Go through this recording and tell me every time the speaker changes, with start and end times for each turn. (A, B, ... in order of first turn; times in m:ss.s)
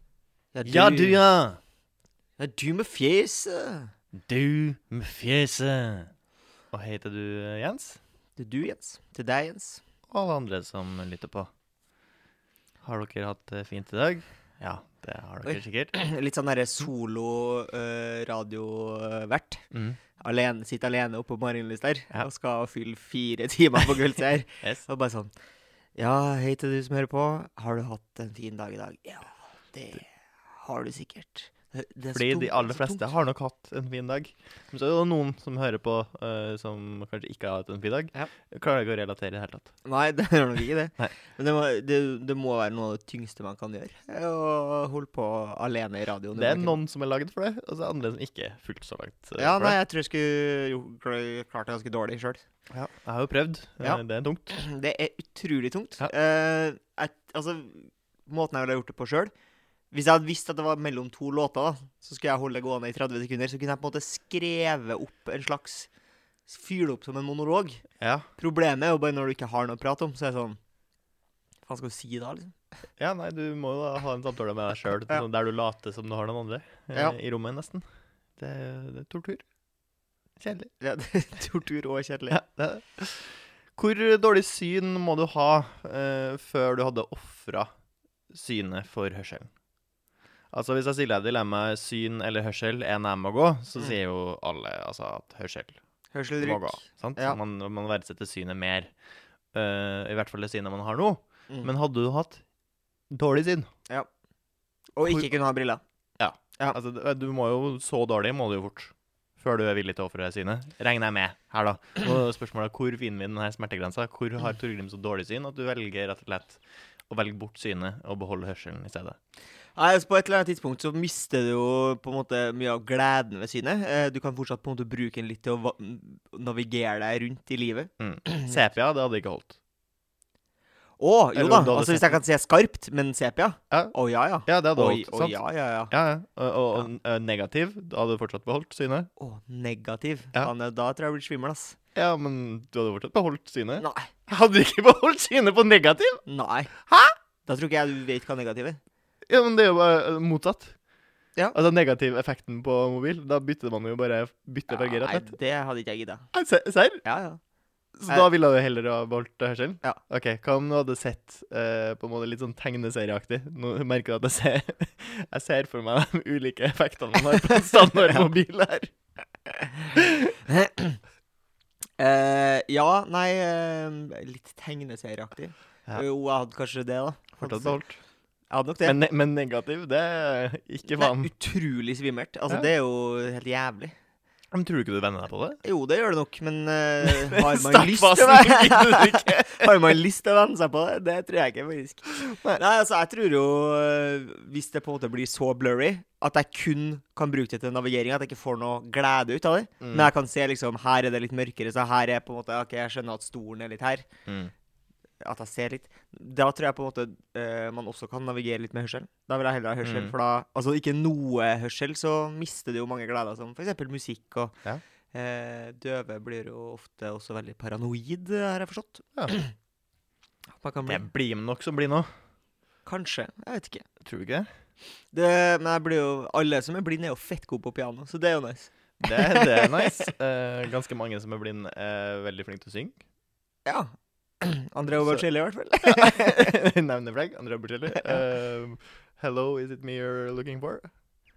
0:00.5-0:01.2 A
0:00.6-0:01.6 B
0:02.4-0:03.9 A
0:04.1-0:06.1 B
0:06.7-0:08.0 B
0:08.4-0:09.8 A
0:10.1-0:11.5 B
0:12.8-0:15.9 B
0:15.4-0:19.6 A
0:19.7-0:20.0 B
0:20.2-0:25.3 A
0:26.0-0:33.1 A
0:32.1-0:39.7 B
0:39.8-0:46.8 A
0:46.3-0:49.8 B
0:49.4-0:52.4 A
0:52.7-0:54.5 B
0:53.8-0:59.3 A
0:59.9-1:05.9 A
1:06.5-1:07.8 A
1:08.0-1:08.3 B
1:08.4-1:10.6 A
1:11.7-1:12.5 A
1:13.0-1:17.8 B
1:18.4-1:19.4 B
1:20.4-1:20.7 B
1:20.8-1:22.4 A
1:22.3-1:27.7 B
1:28.3-1:29.5 B
1:30.5-1:35.8 B
1:36.1-1:37.4 A
1:36.4-1:38.9 B
1:39.5-1:42.4 B
1:43.1-1:43.7 B
1:44.9-1:45.8 A
1:45.0-1:45.3 B
1:46.2-1:59.2 B
1:59.8-2:08.6 A
2:08.0-2:09.6 B
2:11.0-2:15.9 A
2:11.3-2:12.2 B
2:14.4-2:15.4 B
2:15.9-2:19.1 B
2:19.2-2:21.8 A
2:21.9-2:26.2 B
2:23.8-2:24.1 A
2:26.2-2:26.9 A
2:27.4-2:28.8 A
2:29.3-2:30.8 B
2:31.5-2:35.3 B
2:34.7-2:36.3 A
2:36.3-2:37.0 B
2:37.0-2:37.4 A
2:38.0-2:48.9 B
2:47.5-2:48.2 A
2:49.9-2:51.0 A
2:49.9-2:50.4 B
2:52.0-2:57.8 A
2:57.4-2:58.0 B
2:58.5-2:59.0 A
2:58.8-3:01.3 B
3:00.8-3:03.9 A
3:04.5-3:05.6 B
3:05.6-3:24.1 A
3:07.0-3:09.9 B
3:12.2-3:12.6 B
3:19.8-3:20.1 B
3:24.3-3:24.5 B
3:25.2-3:34.6 A
3:29.8-3:30.1 B
3:35.1-3:39.5 A
3:40.6-3:41.0 A
3:40.8-3:42.1 B
3:42.8-3:43.8 A
3:44.0-3:44.5 B
3:45.1-3:50.1 A
3:49.0-3:53.0 B
3:53.6-3:53.9 A
3:54.4-3:56.6 A
3:54.9-3:55.2 B
3:55.8-4:00.9 B
3:57.9-3:58.2 A